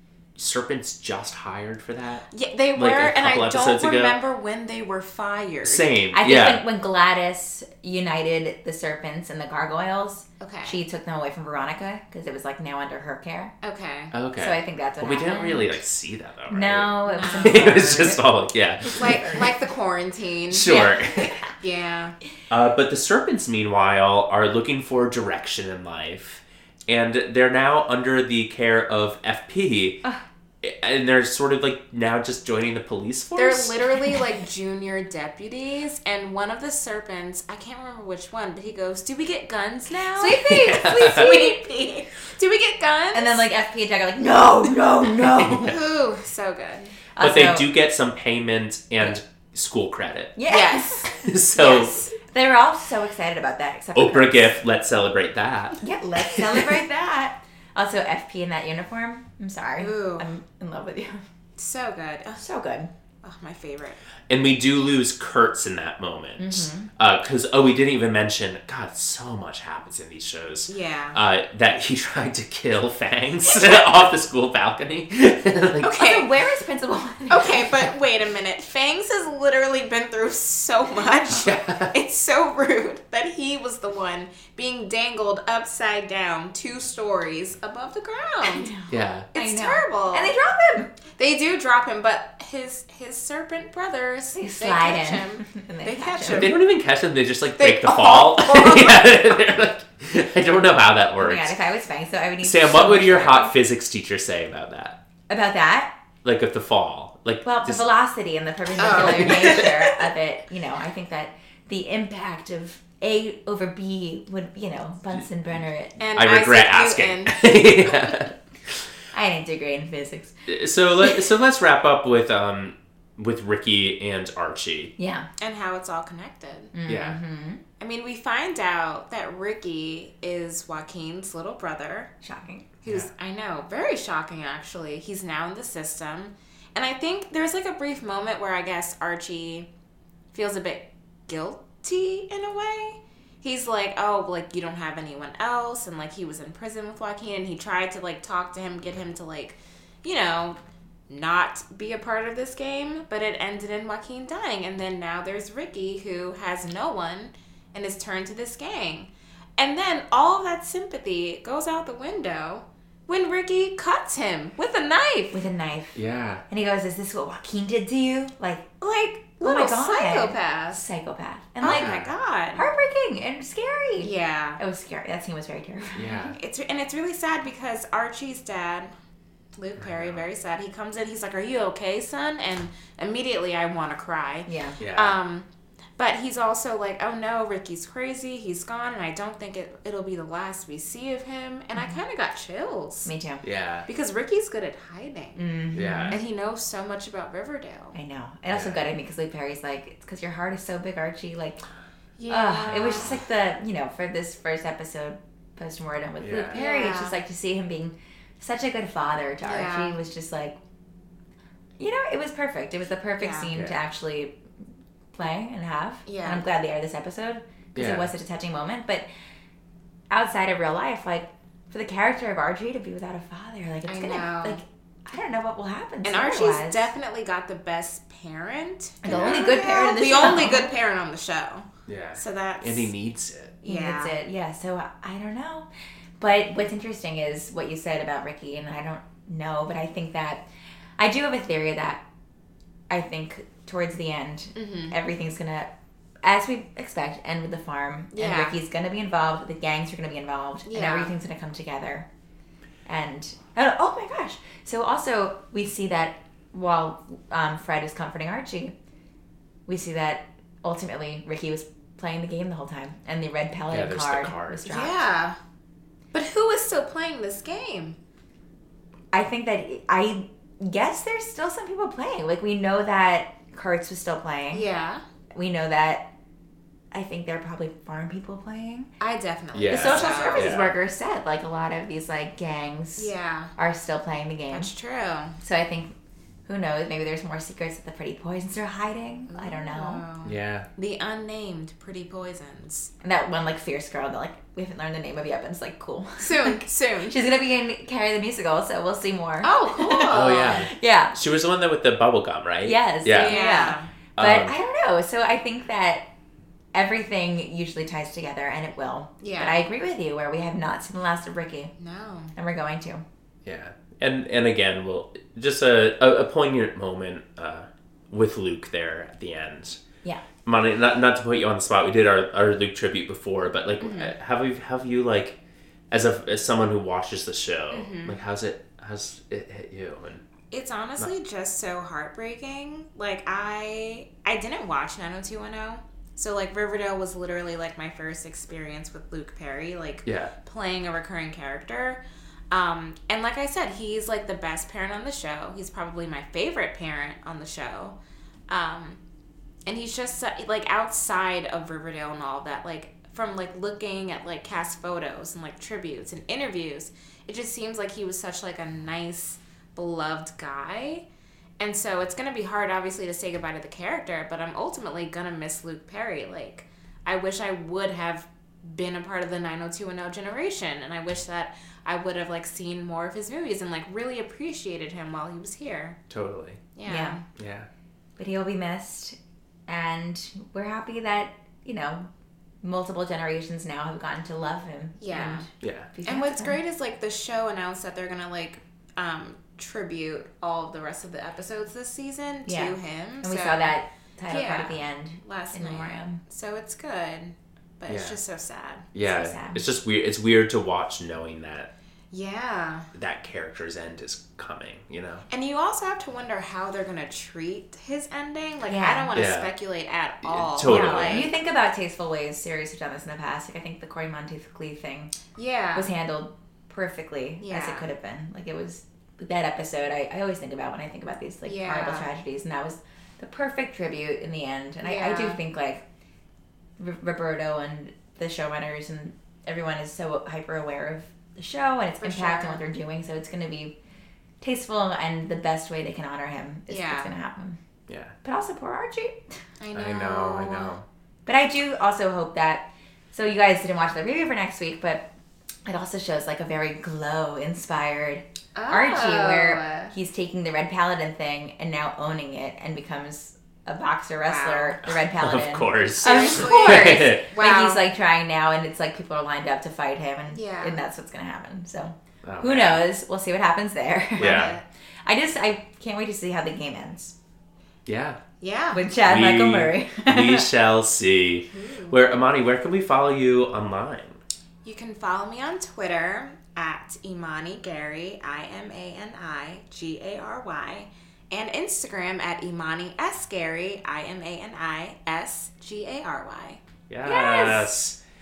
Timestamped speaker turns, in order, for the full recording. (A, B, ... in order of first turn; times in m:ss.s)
0:00.4-0:02.2 A
0:02.3-0:05.9 B
0:02.8-0:04.2 A
0:05.6-0:06.6 A
0:06.1-0:13.5 C
0:10.4-0:10.8 B
0:13.6-0:14.1 B
0:14.1-0:19.4 A
0:14.4-0:15.8 C
0:16.5-0:18.2 C
0:17.1-0:18.0 B
0:18.9-0:20.7 B
0:19.0-0:19.4 C
0:20.5-0:21.4 A
0:20.6-0:21.5 C
0:21.6-0:22.1 B
0:22.5-0:30.0 A
0:30.6-0:33.8 A
0:33.4-0:43.4 B
0:40.2-0:41.6 C
0:40.4-0:41.3 A
0:43.1-0:45.8 C
0:45.4-0:45.8 A
0:45.7-0:47.0 B
0:47.1-0:47.7 C
0:47.2-0:50.3 A
0:50.4-0:54.5 C
0:50.5-0:51.1 B
0:51.1-0:52.0 A
0:51.6-0:52.0 B
0:53.9-0:56.7 A
0:55.8-1:01.2 C
0:59.8-1:00.3 B
1:01.6-1:02.4 B
1:02.4-1:02.9 C
1:03.2-1:04.0 B
1:04.3-1:16.0 A
1:06.4-1:06.9 C
1:10.7-1:11.2 B
1:13.5-1:13.8 B
1:15.8-1:16.3 B
1:15.9-1:17.9 C
1:17.3-1:28.7 B
1:21.3-1:21.9 A
1:28.4-1:30.9 C
1:28.9-1:29.3 A
1:29.3-1:30.3 B
1:31.1-1:36.6 B
1:34.3-1:36.5 C
1:36.3-1:41.5 A
1:37.6-1:39.1 B
1:41.2-1:43.6 C
1:42.4-1:45.0 A
1:45.3-1:45.9 C
1:46.2-1:47.8 A
1:47.4-1:56.0 C
1:48.8-1:49.9 B
1:48.9-1:49.6 A
1:56.0-1:58.1 B
1:56.1-1:58.3 A
1:59.1-2:00.4 C
2:00.5-2:04.9 A
2:05.0-2:05.3 C
2:05.4-2:06.7 B
2:06.7-2:07.6 C
2:06.8-2:07.2 A
2:07.8-2:12.1 B
2:12.2-2:12.7 C
2:12.8-2:13.1 A
2:12.8-2:19.7 B
2:20.3-2:30.6 B
2:31.1-2:45.4 B
2:45.3-2:52.0 C
2:45.9-2:46.4 A
2:49.4-2:50.9 B
2:51.6-2:52.6 B
2:51.6-2:52.1 A
2:52.5-2:56.4 C
2:54.0-2:54.6 B
2:55.9-2:56.3 A
2:56.4-2:58.9 B
2:59.6-3:13.1 B
2:59.8-3:00.2 A
3:04.5-3:04.8 C
3:04.8-3:05.2 A
3:13.0-3:13.4 C
3:13.4-3:13.9 A
3:13.9-3:15.4 B
3:15.4-3:16.2 C
3:15.7-3:16.2 A
3:16.1-3:17.9 B
3:17.9-3:21.6 C
3:18.5-3:18.8 A
3:22.2-3:23.2 B
3:22.3-3:30.6 C
3:26.2-3:26.6 A
3:26.5-3:27.2 B
3:29.4-3:30.0 B
3:31.8-3:34.4 C
3:33.2-3:33.5 B
3:35.1-3:39.0 C
3:36.0-3:36.4 B
3:37.7-3:38.1 A
3:40.1-3:46.9 C
3:43.8-3:44.6 B
3:46.0-3:52.9 B
3:49.0-3:50.7 C
3:49.1-3:49.4 A
3:51.9-3:53.5 A
3:53.6-3:55.7 C
3:53.6-3:54.1 B
3:56.2-4:00.5 C
4:01.0-4:02.0 C
4:02.9-4:05.7 C
4:04.6-4:05.0 B
4:06.2-4:12.1 C
4:08.1-4:08.6 B
4:10.7-4:11.1 B
4:12.8-4:18.7 C
4:19.6-4:25.0 C
4:23.7-4:24.7 A
4:24.7-4:25.4 B
4:26.1-4:28.0 B
4:29.1-4:34.7 C
4:34.5-4:35.0 B
4:35.3-4:36.1 C
4:36.9-4:38.9 C
4:39.0-4:40.6 B
4:39.5-4:40.7 A
4:39.7-4:44.7 C
4:43.0-4:43.5 B
4:44.5-4:45.4 B
4:45.4-4:45.9 C
4:46.4-4:50.0 C
4:49.3-4:52.9 B
4:50.2-4:50.7 A
4:53.0-5:01.2 C
4:56.2-4:57.2 B
4:59.4-5:00.7 B
5:00.1-5:03.4 A
5:02.6-5:06.0 C
5:03.1-5:03.9 B
5:04.2-5:04.5 A
5:06.7-5:11.7 C
5:09.2-5:09.6 B
5:11.8-5:12.3 B
5:12.3-5:13.0 C
5:13.4-5:19.8 A
5:20.4-5:25.4 A
5:23.8-5:24.1 B
5:25.9-5:30.2 A
5:27.7-5:28.2 B
5:30.5-5:48.0 B
5:40.0-5:40.3 A
5:48.5-5:49.0 B
5:49.6-6:01.0 B
6:01.6-6:16.0 B
6:16.1-6:16.6 A
6:16.7-6:17.2 B
6:16.8-6:17.2 C
6:17.4-6:17.7 A
6:18.2-6:22.1 C
6:22.6-6:26.6 C
6:25.0-6:25.5 B
6:25.6-6:25.9 A
6:26.0-6:33.8 B
6:32.4-6:36.2 C
6:34.3-6:38.9 B
6:37.9-6:38.2 A
6:38.9-6:41.7 A
6:39.0-6:39.6 C
6:42.1-6:42.9 B
6:42.9-6:45.2 A
6:45.3-6:51.3 B
6:48.6-6:49.1 C
6:49.1-6:49.5 A
6:50.2-6:51.3 A
6:50.6-6:55.2 C
6:55.4-6:55.9 B
6:55.7-7:05.8 C
6:57.4-6:57.9 B
7:01.4-7:02.1 B
7:04.8-7:05.4 B
7:06.8-7:13.7 C
7:12.0-7:12.6 B
7:14.4-7:17.6 C
7:16.7-7:17.1 B
7:17.9-7:18.1 A
7:18.2-7:19.2 C
7:19.6-7:20.7 B
7:19.7-7:20.8 A
7:21.2-7:25.1 C
7:25.6-7:47.1 C
7:28.5-7:29.9 B
7:34.2-7:34.8 B
7:34.8-7:37.3 A
7:36.0-7:37.8 B
7:40.3-7:40.8 B
7:42.2-7:42.8 A
7:44.2-7:44.6 A
7:44.2-7:44.6 B
7:47.9-7:48.2 A
7:48.4-7:48.8 B
7:48.7-7:50.5 C
7:49.0-7:54.2 A
7:51.5-7:52.1 B
7:54.6-8:06.6 B
8:06.9-8:08.0 A
8:07.0-8:07.7 C